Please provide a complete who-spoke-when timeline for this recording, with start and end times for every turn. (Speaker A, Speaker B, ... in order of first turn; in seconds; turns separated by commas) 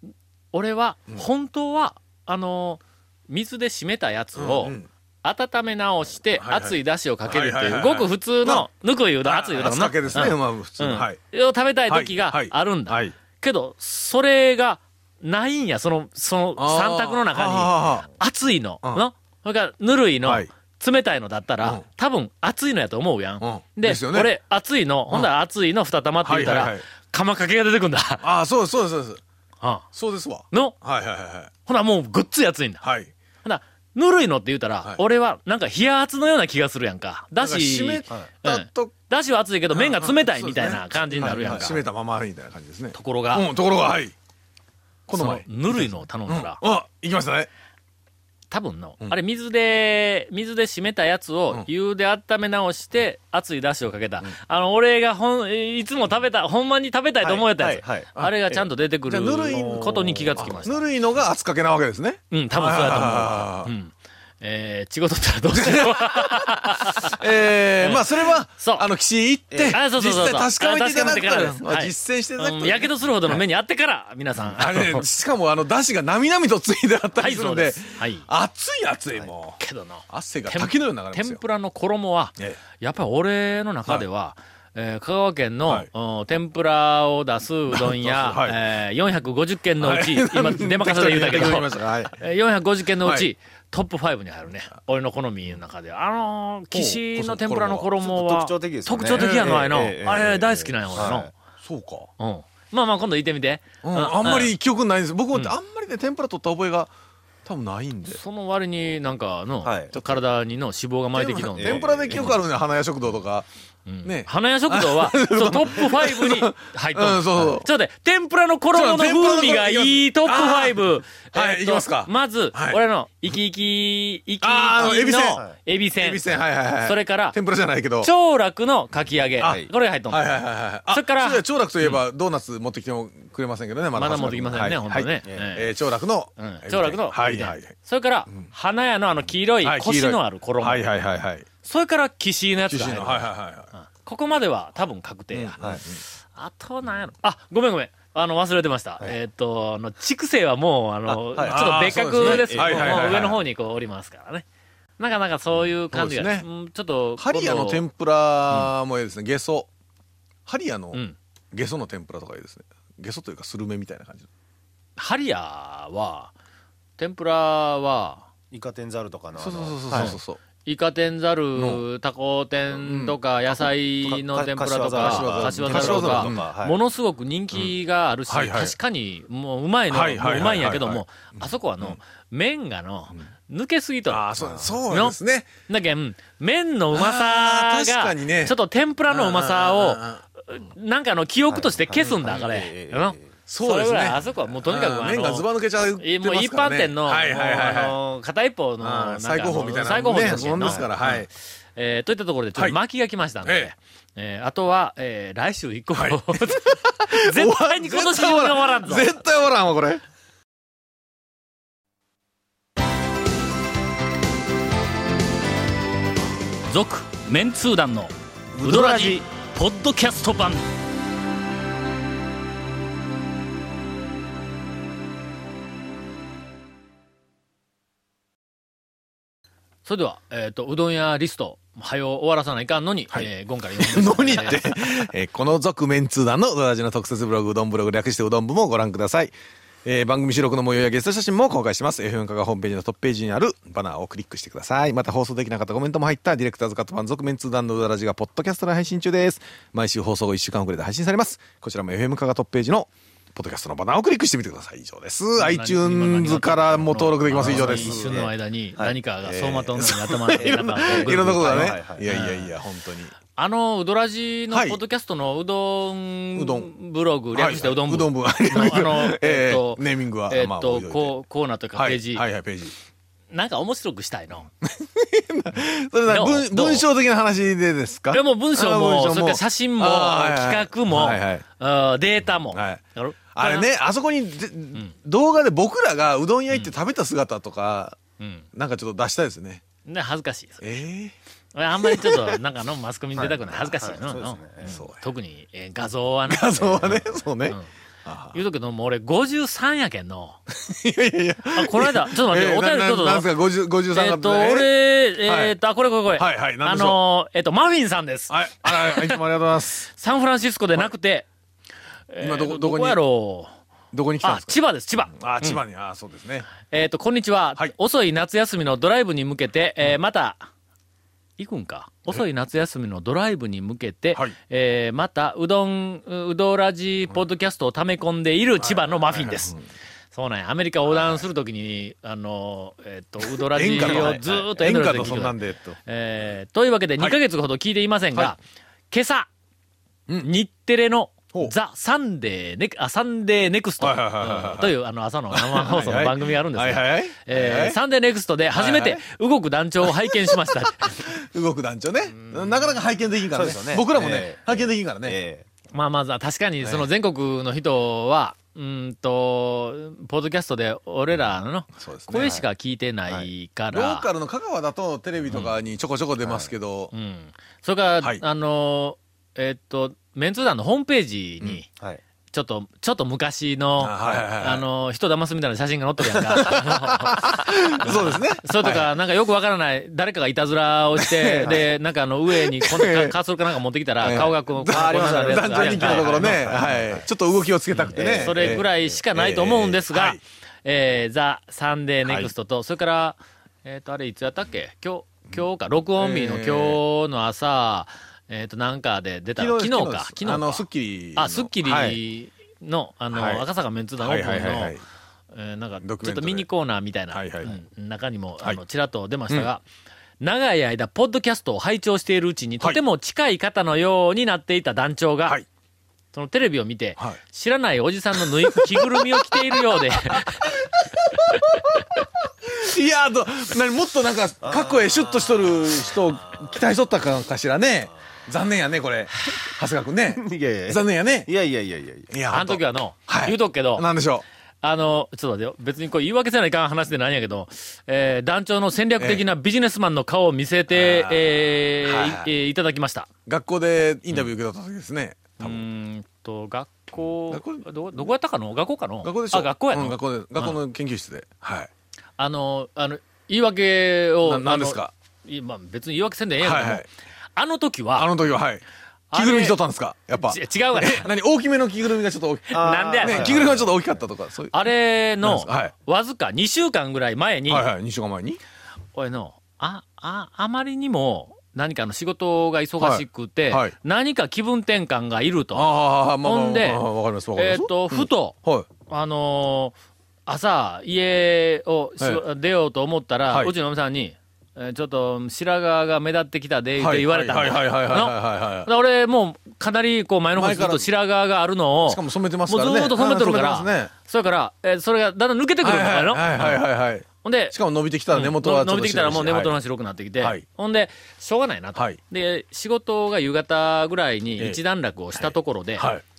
Speaker A: 0.5-28.2, Speaker B: 4.3-4.9, Speaker B: 6.4-8.7, Speaker B: 9.2-11.2, Speaker B: 11.9-13.1, Speaker B: 16.6-18.1, Speaker B: 20.2-20.5, Speaker B: 23.4-24.3, Speaker B: 26.2-26.8, Speaker B: 28.2-29.2, Speaker A: 29.6-29.9, Speaker B: 29.9-31.5, Speaker A: 31.6-32.8, Speaker B: 32.8-33.1, Speaker A: 33.4-41.8, Speaker B: 37.4-38.9, Speaker B: 39.7-44.1, Speaker A: 42.9-43.5, Speaker B: 45.1-47.5, Speaker A: 45.1-46.6, Speaker A: 48.5-60.8, Speaker C: 57.2-58.1, Speaker B: 59.1-63.7, Speaker C: 59.5-60.5, Speaker A: 62.3-67.2, Speaker B: 65.5-73.4, Speaker A: 67.7-68.8, Speaker C: 69.5-69.8, Speaker A: 69.7-75.0, Speaker B: 74.4-81.4, Speaker A: 77.2-78.3, Speaker A: 79.6-101.3, Speaker B: 87.7-88.6, Speaker B: 89.8-92.1, Speaker B: 93.0-93.3, Speaker B: 96.7-97.9, Speaker C: 98.0-101.3, Speaker B: 99.1-99.6, Speaker B: 101.6-102.1, Speaker A: 102.2-104.5, Speaker B: 103.8-106.9, Speaker B: 107.4-108.2, Speaker A: 108.1-112.4, Speaker C: 109.6-109.9, Speaker B: 109.9-110.2, Speaker B: 111.1-113.5, Speaker C: 111.6-112.3, Speaker A: 113.9-127.3, Speaker B: 114.0-117.7, Speaker B: 118.7-122.8, Speaker B: 124.4-125.4, Speaker C: 125.3-125.5, Speaker B: 126.0-128.1, Speaker A: 128.0-130.3, Speaker B: 129.4-137.7, Speaker C: 129.4-129.7, Speaker A: 130.9-132.0, Speaker A: 133.9-135.7, Speaker A: 136.4-140.8, Speaker B: 139.6-141.5, Speaker A: 141.6-145.6, Speaker B: 142.7-143.7, Speaker B: 145.3-146.0, Speaker A: 146.3-154.4, Speaker C: 151.3-153.3, Speaker B: 151.4-153.4, Speaker A: 155.0-157.8, Speaker B: 155.9-156.4, Speaker B: 157.2-159.7, Speaker B: 160.4-161.0, Speaker B: 161.5-164.3, Speaker A: 165.0-166.3, Speaker A: 167.0-168.3, Speaker C: 168.5-170.1, Speaker B: 169.4-170.4, Speaker A: 169.9-184.3, Speaker B: 171.5-171.8, Speaker B: 172.7-173.2, Speaker C: 174.0-176.8, Speaker B: 175.0-176.5, Speaker B: 178.3-178.7, Speaker B: 179.9-181.0, Speaker B: 184.1-185.5, Speaker A: 184.8-185.2, Speaker A: 185.7-201.2, Speaker B: 186.9-188.6, Speaker B: 189.1-190.2, Speaker C: 191.5-193.2, Speaker B: 193.5-198.0, Speaker B: 198.8-201.3, Speaker C: 200.6-200.9, Speaker A: 201.8-209.2, Speaker B: 203.4-203.7, Speaker B: 205.9-210.0, Speaker A: 216.7-220.6, Speaker C: 218.6-219.2, Speaker A: 229.8-235.0, Speaker B: 233.1-258.2, Speaker A: 255.4-262.5, Speaker C: 257.3-262.2, Speaker B: 259.8-263.1, Speaker A: 263.4-272.2, Speaker B: 264.5-264.8, Speaker B: 266.4-266.7, Speaker B: 267.3-271.1, Speaker B: 271.8-272.7, Speaker A: 273.3-274.5, Speaker B: 274.6-281.4, Speaker A: 276.1-276.9, Speaker A: 278.1-283.7, Speaker B: 282.5-282.8, Speaker B: 283.3-288.0, Speaker A: 288.2-288.4, Speaker B: 288.5-289.6, Speaker A: 289.9-290.8, Speaker B: 290.6-291.1, Speaker A: 291.5-297.7, Speaker B: 291.8-292.4, Speaker C: 293.2-294.7, Speaker B: 294.6-295.0, Speaker B: 296.3-298.4, Speaker A: 298.3-300.4, Speaker B: 300.5-305.5, Speaker A: 301.5-303.3, Speaker A: 303.9-309.2, Speaker B: 306.1-307.0, Speaker B: 308.3-309.9, Speaker A: 309.9-311.3, Speaker A: 312.1-313.5, Speaker B: 312.2-313.0, Speaker B: 313.9-316.5, Speaker A: 314.2-315.6, Speaker A: 316.7-320.4, Speaker A: 321.4-329.6, Speaker B: 328.6-329.6, Speaker A: 330.1-338.4, Speaker B: 330.9-331.2, Speaker B: 333.3-335.8, Speaker A: 338.9-339.3, Speaker A: 340.2-351.0, Speaker B: 343.8-344.7, Speaker B: 345.3-347.8, Speaker B: 348.5-349.0, Speaker B: 349.8-355.2, Speaker C: 353.3-355.4, Speaker A: 355.7-364.1, Speaker B: 361.8-362.3, Speaker C: 362.1-362.4, Speaker B: 363.7-366.9, Speaker C: 366.2-366.5, Speaker A: 366.9-371.6, Speaker A: 372.3-386.6, Speaker B: 373.8-374.6, Speaker B: 376.3-378.9, Speaker B: 381.0-381.6, Speaker B: 382.3-383.2, Speaker B: 384.0-390.2, Speaker C: 384.6-387.0, Speaker A: 387.7-400.6, Speaker C: 387.9-388.7, Speaker B: 392.1-392.3, Speaker B: 396.0-396.8, Speaker B: 399.4-402.0, Speaker A: 401.1-404.8, Speaker B: 403.1-403.4, Speaker B: 404.0-404.8, Speaker A: 405.3-409.6, Speaker B: 405.8-406.5, Speaker B: 407.1-407.6, Speaker A: 410.2-415.4, Speaker A: 416.1-420.6, Speaker B: 418.1-421.8, Speaker A: 421.1-421.8, Speaker B: 422.4-431.3, Speaker C: 424.4-425.2, Speaker C: 430.2-432.1, Speaker B: 432.1-434.2, Speaker A: 432.3-433.9, Speaker A: 434.6-443.1, Speaker B: 439.0-439.2, Speaker B: 440.7-442.3, Speaker B: 443.2-445.6, Speaker A: 445.4-450.6, Speaker B: 447.3-448.1, Speaker B: 449.0-451.7, Speaker A: 452.2-456.8, Speaker B: 454.2-454.9, Speaker B: 456.4-456.9, Speaker A: 457.4-458.1, Speaker B: 457.9-464.7, Speaker A: 459.1-459.6, Speaker A: 460.1-461.1, Speaker A: 462.5-463.4, Speaker C: 462.5-463.7, Speaker A: 464.5-467.7, Speaker B: 465.2-465.7, Speaker B: 467.5-468.4, Speaker A: 468.9-476.8, Speaker B: 472.8-473.7, Speaker B: 475.5-478.7, Speaker A: 477.4-479.7, Speaker A: 480.2-496.6, Speaker B: 486.8-488.7, Speaker B: 490.3-490.9, Speaker B: 491.9-493.9, Speaker B: 495.6-499.5, Speaker A: 497.2-497.6, Speaker A: 498.1-505.9, Speaker B: 505.1-506.0